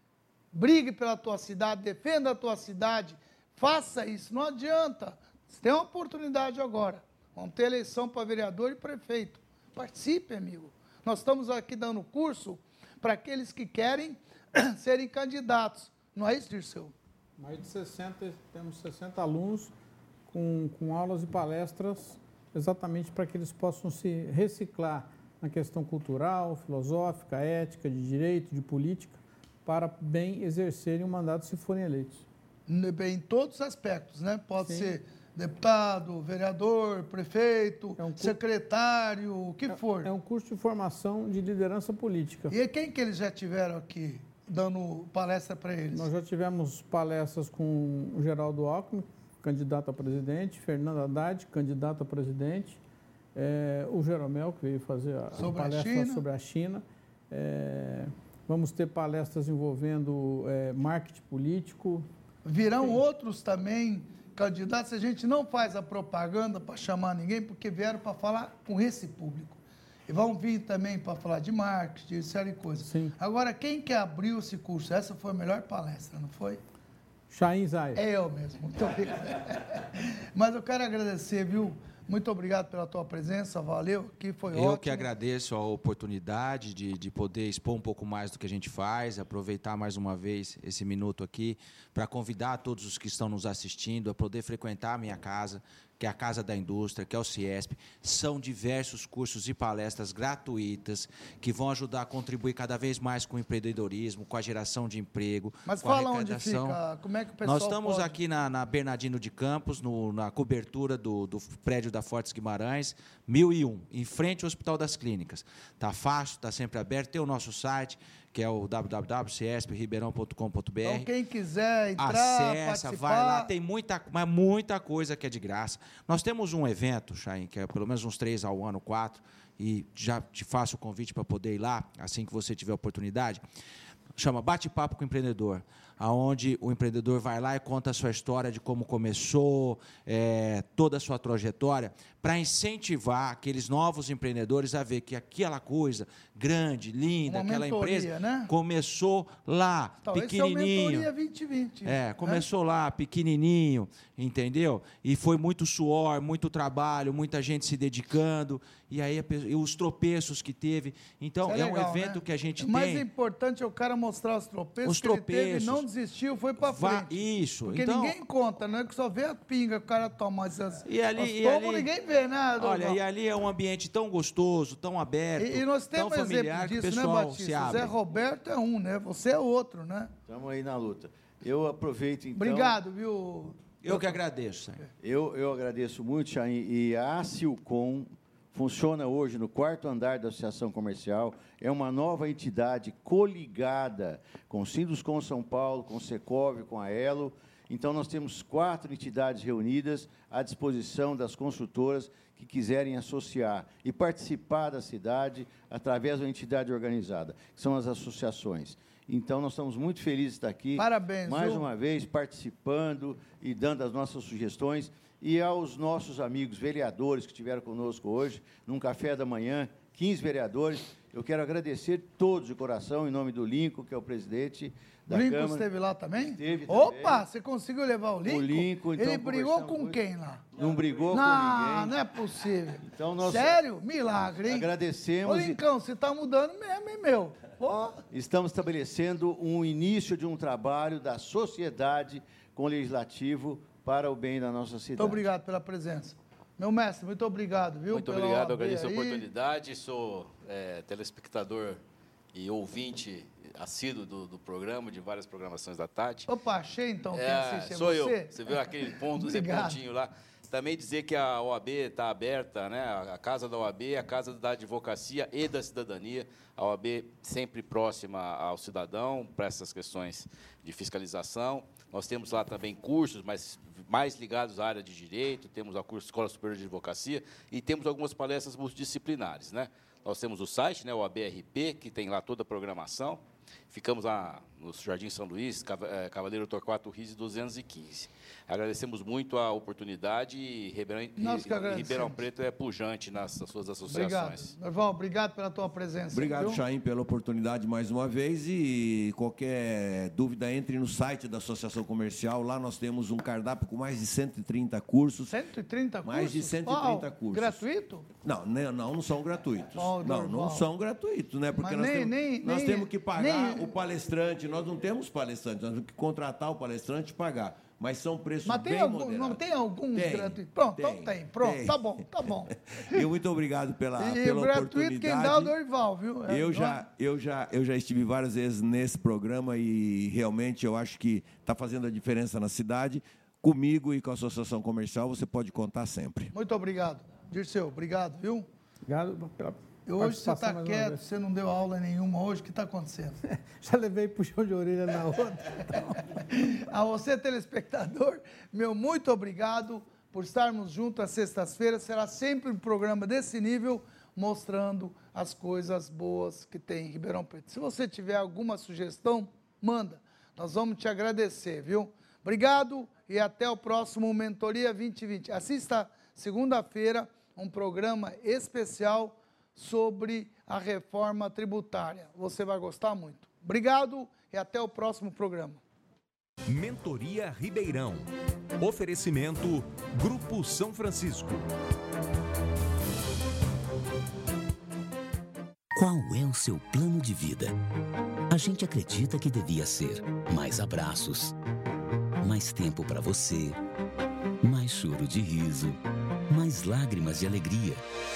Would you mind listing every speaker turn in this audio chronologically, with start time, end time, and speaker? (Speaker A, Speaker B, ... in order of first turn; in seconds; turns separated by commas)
Speaker A: 0.5-16.9, Speaker B: 17.4-19.7, Speaker B: 20.3-32.2, Speaker A: 32.7-40.1, Speaker B: 34.6-35.0, Speaker B: 38.0-38.4, Speaker B: 39.7-42.6, Speaker A: 42.5-46.1, Speaker B: 45.9-52.8, Speaker B: 53.4-62.1, Speaker A: 55.4-56.2, Speaker A: 62.5-76.6, Speaker B: 72.8-73.2, Speaker B: 77.3-78.0, Speaker A: 78.0-85.1, Speaker C: 84.5-106.8, Speaker A: 105.7-108.2, Speaker C: 107.4-121.1, Speaker A: 120.8-123.5, Speaker C: 122.0-133.4, Speaker C: 134.2-151.1, Speaker A: 147.3-148.5, Speaker A: 150.1-152.5, Speaker C: 151.8-163.1, Speaker A: 161.4-173.0, Speaker C: 164.8-165.8, Speaker C: 166.6-168.2, Speaker C: 170.8-171.9, Speaker C: 172.6-178.0, Speaker A: 175.4-180.1, Speaker D: 180.3-182.8, Speaker A: 182.3-184.2, Speaker C: 183.8-184.8, Speaker D: 185.0-227.3, Speaker A: 210.8-211.7, Speaker A: 225.1-230.6, Speaker D: 228.2-230.0, Speaker D: 230.5-232.0, Speaker A: 231.1-234.7, Speaker D: 232.8-233.6, Speaker D: 234.4-235.6, Speaker A: 235.2-238.0, Speaker D: 238.1-245.2, Speaker A: 245.0-249.3, Speaker E: 247.9-251.8, Speaker E: 252.3-256.3, Speaker A: 256.3-259.8, Speaker E: 257.1-294.6, Speaker A: 291.2-292.3, Speaker A: 293.9-296.6, Speaker F: 296.1-305.4, Speaker A: 305.3-308.1, Speaker F: 306.0-307.6, Speaker F: 308.2-319.4, Speaker A: 309.7-310.7, Speaker A: 311.6-313.7, Speaker A: 318.4-323.1, Speaker F: 319.9-322.0, Speaker F: 322.7-325.6, Speaker A: 324.0-326.8, Speaker F: 326.3-336.3, Speaker A: 336.3-338.5, Speaker B: 338.9-341.0, Speaker A: 339.9-343.2, Speaker B: 343.2-346.2, Speaker A: 346.2-375.6, Speaker G: 376.5-378.1, Speaker G: 378.6-381.4, Speaker H: 385.7-387.6, Speaker H: 388.3-391.3, Speaker H: 392.2-393.6, Speaker H: 394.4-395.8, Speaker H: 396.3-397.8